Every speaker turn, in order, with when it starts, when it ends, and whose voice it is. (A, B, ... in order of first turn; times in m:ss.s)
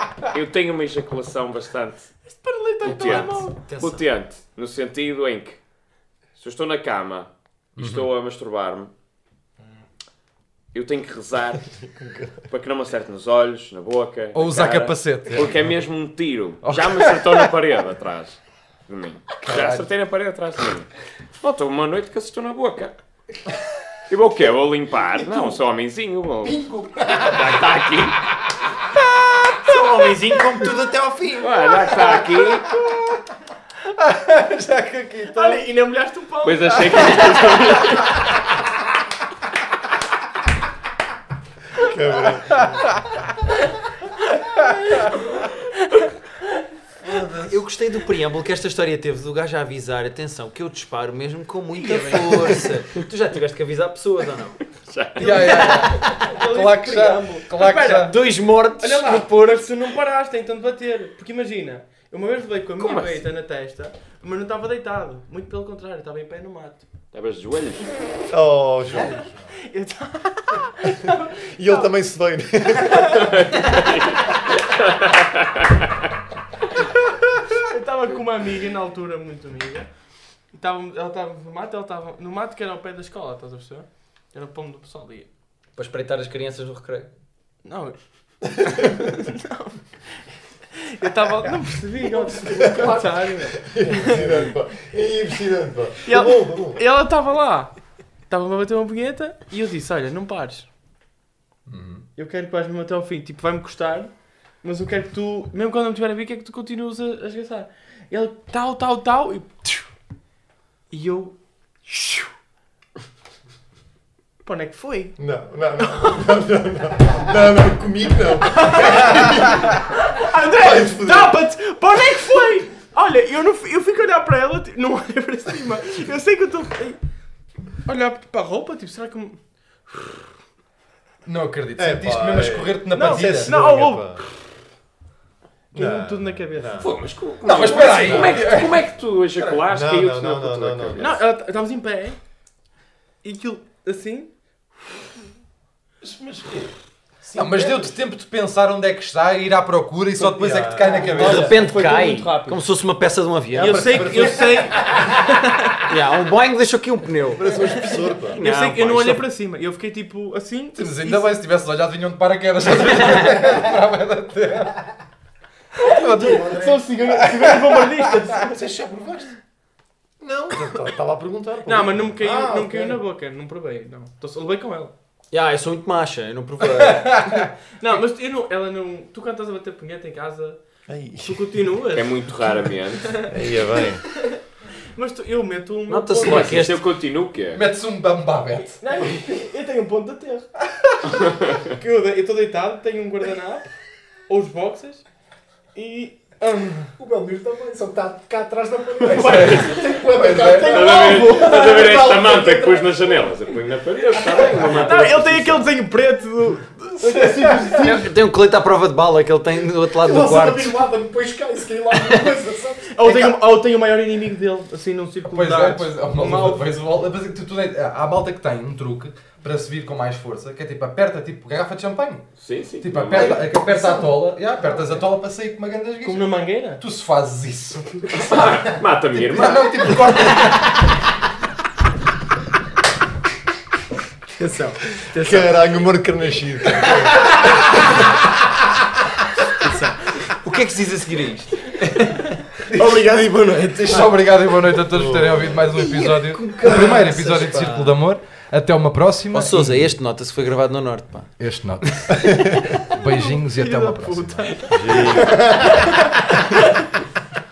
0:00.3-0:02.1 A
0:02.2-0:03.6 B
0:02.8-0:05.6 A
0:03.0-0:04.1 C
0:06.4-0:08.9 A
0:07.8-0:08.1 D
0:10.7-0:11.7 A
0:12.0-0:12.3 E
0:12.5-0:22.9 A
0:14.3-0:15.5 D
0:16.6-0:17.3 D
0:19.4-0:19.9 D
0:24.1-0:28.2 A
0:26.4-0:27.8 F
0:29.1-0:30.0 D
0:29.7-0:30.8 C
0:29.7-0:32.2 F
0:30.6-0:31.1 E
0:31.4-0:32.7 A
0:33.9-0:35.7 D
0:35.3-0:38.0 B
0:36.4-0:38.2 A
0:41.8-0:42.7 E
0:42.6-0:42.8 D
0:44.9-0:46.0 B
0:47.0-0:47.6 E
0:47.5-0:54.6 C
0:51.7-0:52.7 B
0:54.9-0:55.7 A
0:55.2-0:58.2 D
0:55.2-1:06.9 B
0:57.8-0:59.3 C
1:02.8-1:03.2 A
1:07.1-1:07.9 A
1:08.3-1:09.3 E
1:09.0-1:11.9 B
1:11.4-1:13.3 E
1:12.7-1:13.7 B
1:13.4-1:14.3 A
1:14.8-1:15.3 A
1:17.5-1:19.9 B
1:20.5-1:25.3 B
1:25.8-1:27.1 C
1:27.6-1:28.0 B
1:28.6-1:29.8 B
1:30.9-1:34.4 B
1:33.6-1:36.8 E
1:36.0-1:37.7 B
1:38.3-1:40.7 B
1:41.7-1:42.1 D
1:42.2-1:49.9 B
1:50.9-1:52.3 B
1:54.4-1:55.2 B
1:55.2-1:59.7 E
1:55.8-1:56.5 B
1:58.4-2:07.0 B
2:00.5-2:01.4 E
2:07.8-2:09.4 B
2:11.2-2:13.9 D
2:11.8-2:14.2 E
2:12.9-2:14.1 B
2:15.7-2:16.9 B
2:15.7-2:17.0 E
2:16.8-2:21.2 A
2:17.4-2:18.8 D
2:18.0-2:18.4 E
2:19.4-2:21.2 E
2:21.0-2:22.2 B
2:23.2-2:24.3 B
2:27.2-2:28.0 G
2:27.4-2:31.7 D
2:30.4-2:31.0 E
2:30.8-2:32.6 B
2:30.8-2:31.4 F
2:31.1-2:34.4 C
2:33.5-2:35.8 B
2:33.6-2:34.5 G
2:35.9-2:37.8 C
2:37.3-2:38.4 E
2:38.3-2:41.2 B
2:38.4-2:39.2 A
2:38.5-2:39.2 C
2:40.8-2:44.8 D
2:45.8-2:47.8 D
2:45.8-2:48.6 B
2:46.2-2:46.6 F
2:48.5-2:49.3 G
2:50.2-2:52.2 E
2:51.7-2:54.9 B
2:52.2-2:53.0 G
2:55.3-2:57.2 C
2:56.9-2:58.0 D
2:57.4-3:02.2 B
3:00.9-3:01.5 E
3:01.9-3:03.2 A
3:03.2-3:04.0 E
3:03.2-3:04.4 B
3:04.9-3:06.6 B
3:05.9-3:06.8 C
3:06.2-3:07.6 A
3:07.5-3:08.8 D
3:08.8-3:10.5 B
3:11.8-3:13.7 B
3:14.3-3:15.0 B
3:15.8-3:16.9 B
3:17.0-3:23.3 F
3:19.0-3:21.2 D
3:19.1-3:21.7 B
3:20.7-3:25.7 A
3:24.2-3:24.7 F
3:24.6-3:28.1 B
3:24.6-3:25.0 C
3:27.0-3:27.8 D
3:27.8-3:30.8 C
3:30.0-3:33.1 F
3:32.0-3:32.3 C
3:32.9-3:36.6 B
3:35.3-3:42.3 D
3:42.4-3:43.5 A
3:42.8-3:46.3 D
3:43.2-3:45.1 F
3:46.0-3:46.8 B
3:46.8-3:48.3 D
3:48.1-3:50.1 A
3:49.2-3:50.8 D
3:54.4-3:55.5 B
3:55.1-3:57.2 E
4:00.4-4:02.4 C
4:02.7-4:03.2 D
4:03.8-4:09.9 D
4:04.8-4:05.6 E
4:05.7-4:08.0 C
4:09.3-4:11.3 C
4:11.4-4:12.3 D
4:12.8-4:14.7 D
4:12.9-4:16.7 B
4:14.7-4:15.6 E